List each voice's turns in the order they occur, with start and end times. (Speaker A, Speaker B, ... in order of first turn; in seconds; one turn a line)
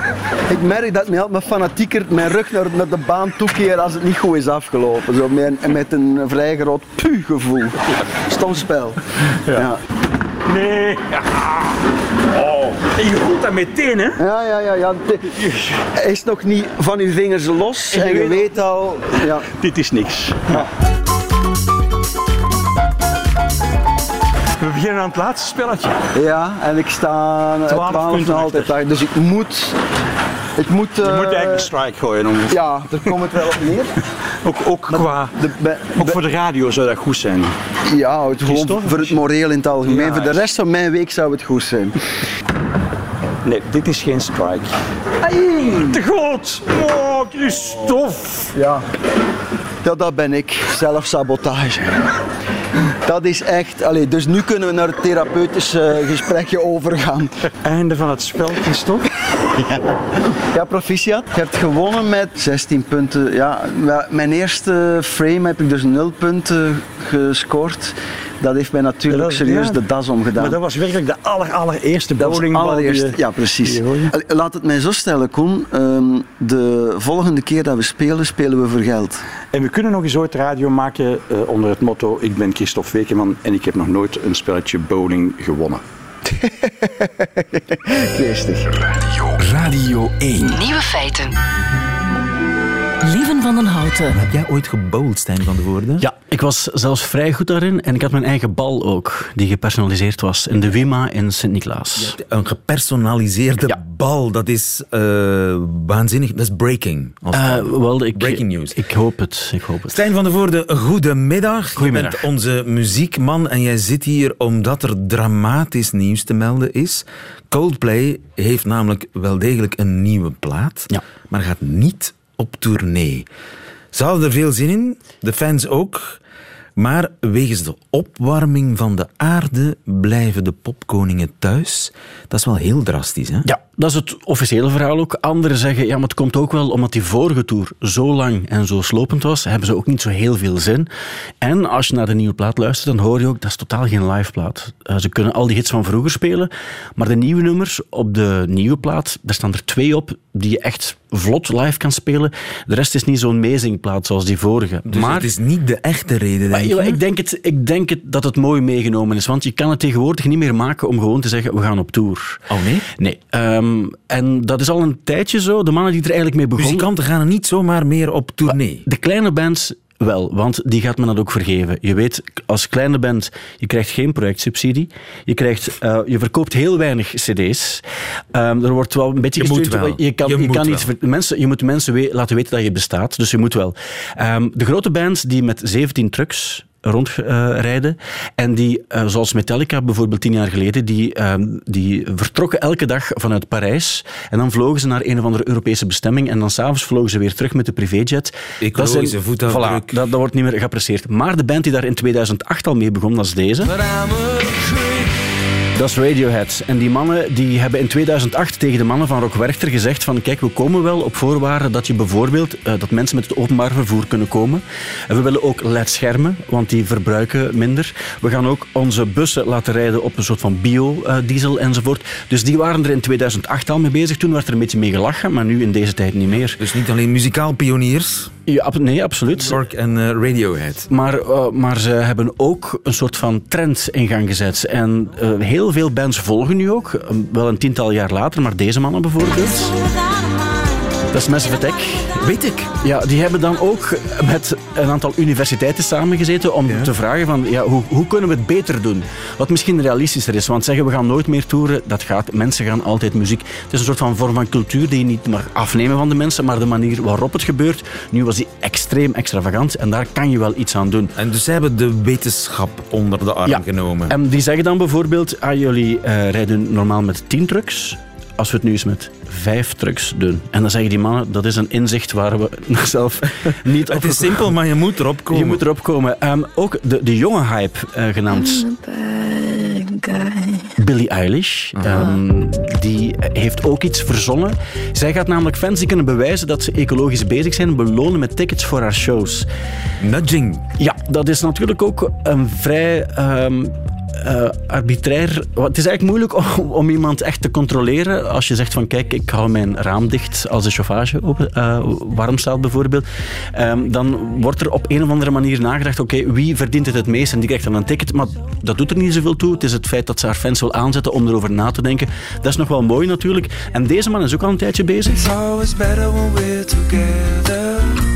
Speaker A: 0.5-9.8
Speaker B: 10.4-14.2
Speaker A: 14.2-15.4
Speaker B: 15.3-15.8
Speaker A: 15.9-19.5
Speaker B: 17.9-18.6
Speaker B: 19.4-20.7
Speaker B: 24.6-26.0
Speaker A: 26.1-29.8
Speaker B: 27.7-28.7
Speaker A: 30.6-31.7
Speaker B: 31.0-32.6
Speaker A: 32.5-33.9
Speaker B: 34.4-35.4
Speaker A: 34.9-36.2
Speaker B: 35.9-37.5
Speaker A: 37.8-42.0
Speaker B: 38.4-39.2
Speaker B: 39.8-40.4
Speaker B: 43.4-44.7
Speaker A: 45.2-46.0
Speaker B: 45.8-48.5
Speaker A: 48.5-48.8
Speaker A: 49.8-52.1
Speaker A: 53.0-57.3
Speaker B: 57.6-59.1
Speaker A: 60.3-70.6
Speaker B: 69.1-69.8
Speaker B: 70.3-74.1
Speaker A: 72.2-79.2
Speaker B: 79.5-85.8
Speaker A: 86.2-88.7
Speaker B: 89.1-90.6
Speaker C: 90.5-91.3
Speaker C: 93.0-94.2
Speaker D: 94.2-96.0
Speaker E: 96.0-102.1
Speaker D: 102.0-108.8
Speaker E: 107.3-110.0
Speaker D: 109.9-123.3
Speaker E: 111.8-112.2
Speaker D: 123.9-126.2
Speaker D: 126.8-133.5
Speaker E: 133.4-140.9
Speaker E: 141.4-155.3
Speaker D: 154.9-157.0
Speaker E: 156.5-162.4
Speaker D: 162.5-162.8
Speaker E: 163.0-166.9
Speaker D: 166.6-168.8
Speaker E: 168.5-203.8
Speaker D: 179.4-180.9
Speaker D: 198.6-200.0
Speaker E: 205.7-226.6
Speaker D: 226.6-228.3
Speaker E: 228.5-229.6
Speaker D: 229.4-230.9
Speaker E: 230.9-239.8
Speaker E: 241.1-242.1
Speaker D: 242.1-242.7
Speaker E: 242.8-261.1
Speaker D: 261.1-264.1
Speaker E: 263.5-274.5
Speaker D: 273.9-275.6
Speaker E: 275.3-278.6
Speaker C: 278.3-280.7
Speaker E: 280.8-289.4
Speaker C: 281.9-282.2
Speaker D: 290.0-290.6
Speaker E: 290.8-315.4